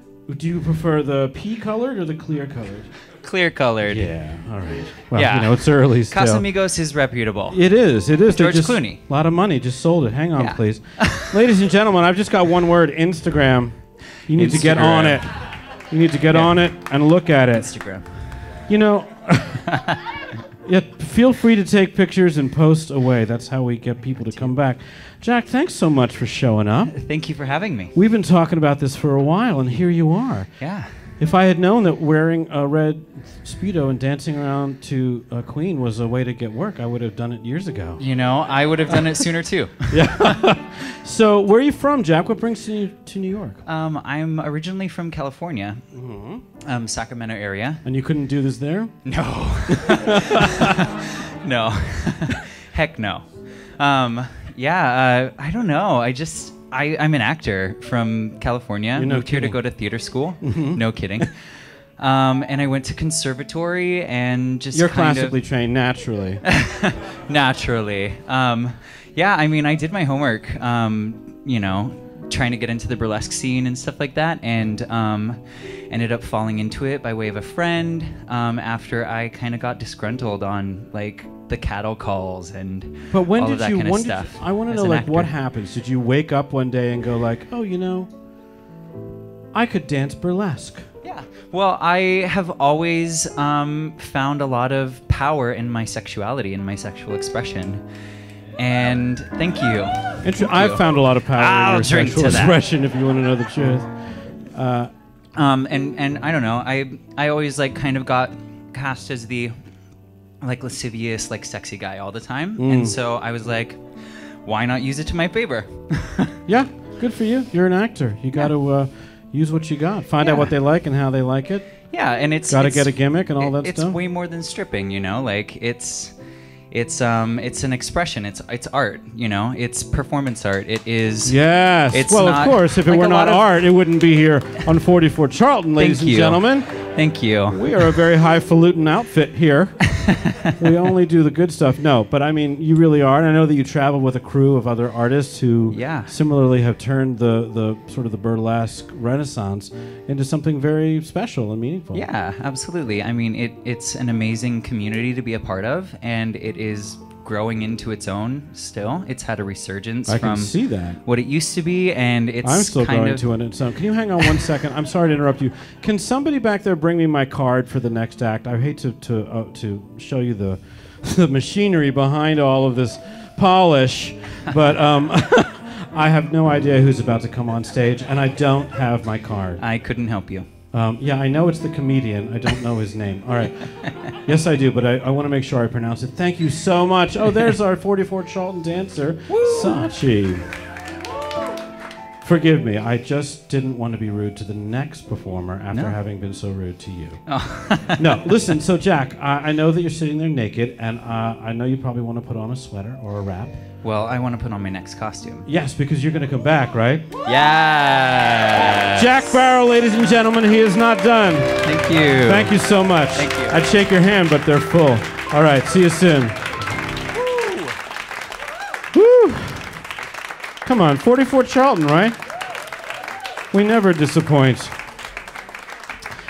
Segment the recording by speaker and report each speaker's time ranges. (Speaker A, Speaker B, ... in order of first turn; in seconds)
Speaker A: 0.3-2.9, 3.9-6.4, 7.5-15.4, 15.9-17.7, 18.7-19.8, 20.6-26.9, 27.9-30.5, 31.2-38.0, 39.9-43.6, 45.9-46.4, 47.8-48.9, 49.7-50.8, 59.0-59.6, 60.4-60.8, 64.7-66.4, 83.1-88.1, 89.5-90.9, 100.2-103.9, 104.5-104.9, 112.6-112.9, 116.5-121.7, 122.5-124.0, 131.2-136.7, 137.5-139.8, 140.6-152.1, 160.1-161.0, 162.4-179.6, 180.7-190.4, 192.2-197.2, 197.9-203.6, 205.4-207.1, 208.9-211.6, 212.2-216.4, 218.9-219.7, 220.6-222.2, 223.5-224.7
Speaker B: 3.2-4.1, 5.1-7.6, 8.3-9.0, 10.4-11.4, 14.3-15.2, 16.3-16.6, 17.5-18.1, 26.9-27.9, 30.6-30.9, 38.0-40.3, 43.6-45.8, 46.6-47.8, 49.0-65.4, 66.5-85.3, 91.0-97.8, 98.6-102.6, 105.3-109.5, 110.4-116.3, 120.2-120.5, 121.9-126.1, 126.7-131.4, 131.9-133.4, 135.8-137.9, 140.1-140.5, 145.7-146.1, 151.9-163.3, 179.6-180.5, 189.3-189.9, 195.7-196.0, 197.3-198.3, 203.8-205.4, 207.2-209.2, 211.6-212.6, 213.1-213.6, 217.1-217.7